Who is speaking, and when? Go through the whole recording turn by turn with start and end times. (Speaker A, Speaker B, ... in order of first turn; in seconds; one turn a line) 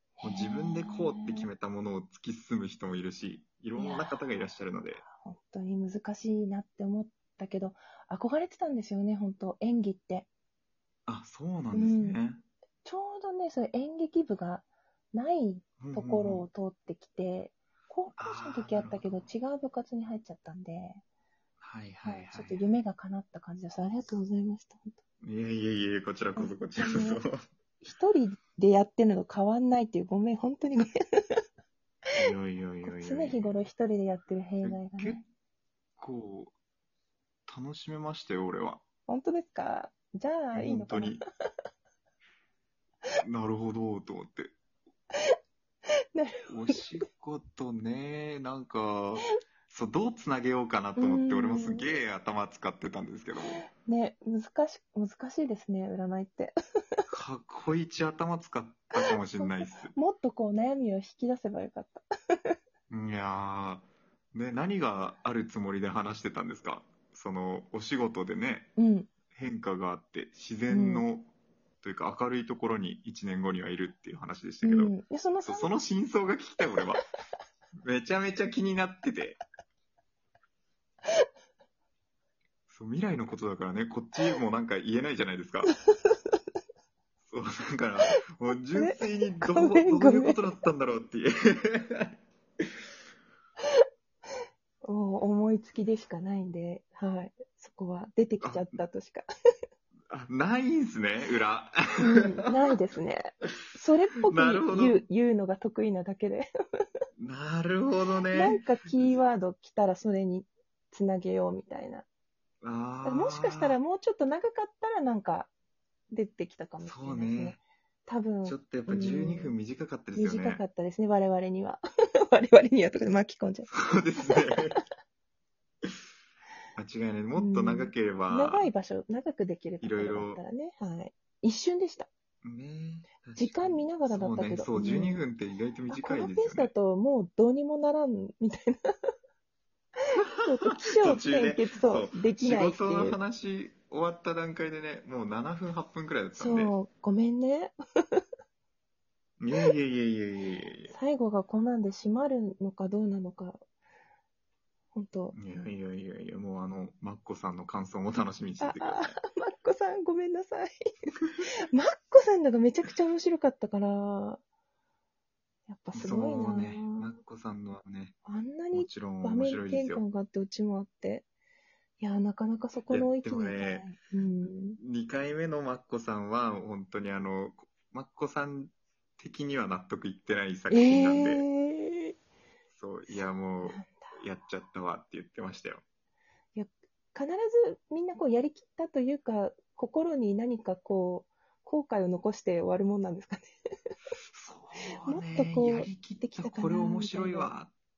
Speaker A: 0.2-1.5
Speaker B: 0.2-5.0
Speaker A: 3.8-4.2
Speaker A: 5.0-10.3
Speaker B: 11.1-12.4
Speaker A: 11.7-12.2
Speaker A: 12.8-21.0
Speaker B: 15.8-16.4
Speaker B: 18.2-19.3
Speaker B: 21.6-22.6
Speaker A: 22.0-25.0
Speaker B: 25.2-27.4
Speaker A: 26.4-27.2
Speaker A: 27.8-31.4
Speaker B: 32.1-33.5
Speaker A: 32.8-35.2
Speaker B: 34.6-35.2
Speaker B: 36.0-36.5
Speaker B: 37.5-38.8
Speaker A: 39.1-41.2
Speaker B: 40.5-41.2
Speaker B: 43.2-44.5
Speaker A: 46.1-46.8
Speaker B: 46.5-53.6
Speaker A: 51.0-51.9
Speaker A: 53.7-57.0
Speaker B: 57.1-59.9
Speaker A: 59.0-62.5
Speaker B: 62.9-68.7
Speaker A: 68.8-69.1
Speaker B: 69.3-71.3
Speaker A: 70.7-71.0
Speaker B: 71.8-74.9
Speaker A: 74.6-75.7
Speaker B: 75.4-77.0
Speaker B: 77.8-79.4
Speaker B: 82.7-85.7
Speaker A: 85.9-86.4
Speaker B: 87.3-92.1
Speaker A: 88.1-90.4
Speaker A: 94.8-99.2
Speaker B: 98.4-98.8
Speaker B: 100.1-102.5
Speaker A: 102.0-106.5
Speaker B: 104.3-105.0
Speaker B: 107.2-109.2
Speaker A: 108.3-112.0
Speaker B: 112.6-113.8
Speaker A: 113.0-115.5
Speaker A: 116.1-119.5
Speaker B: 116.8-117.6
Speaker B: 118.4-120.6
Speaker A: 120.2-123.7
Speaker B: 123.7-124.8
Speaker A: 124.2-124.8
Speaker B: 126.8-128.7
Speaker A: 127.3-132.1
Speaker B: 129.8-130.4
Speaker B: 132.4-136.7
Speaker A: 133.3-135.2
Speaker A: 135.9-138.8
Speaker A: 140.3-143.2
Speaker B: 140.7-146.7
Speaker A: 146.3-148.2
Speaker B: 149.4-150.9
Speaker A: 150.9-153.6
Speaker A: 154.9-155.3
Speaker B: 155.3-159.2
Speaker A: 158.6-160.7
Speaker A: 161.7-164.4
Speaker A: 165.7-167.1
Speaker B: 165.9-168.1
Speaker A: 168.2-171.2
Speaker B: 168.7-170.0
Speaker A: 172.0-174.8
Speaker B: 172.9-173.9
Speaker B: 174.8-181.4
Speaker A: 180.7-182.1
Speaker B: 182.7-185.8
Speaker A: 183.6-184.1
Speaker A: 186.5-193.5
Speaker B: 194.3-197.7
Speaker A: 195.0-197.5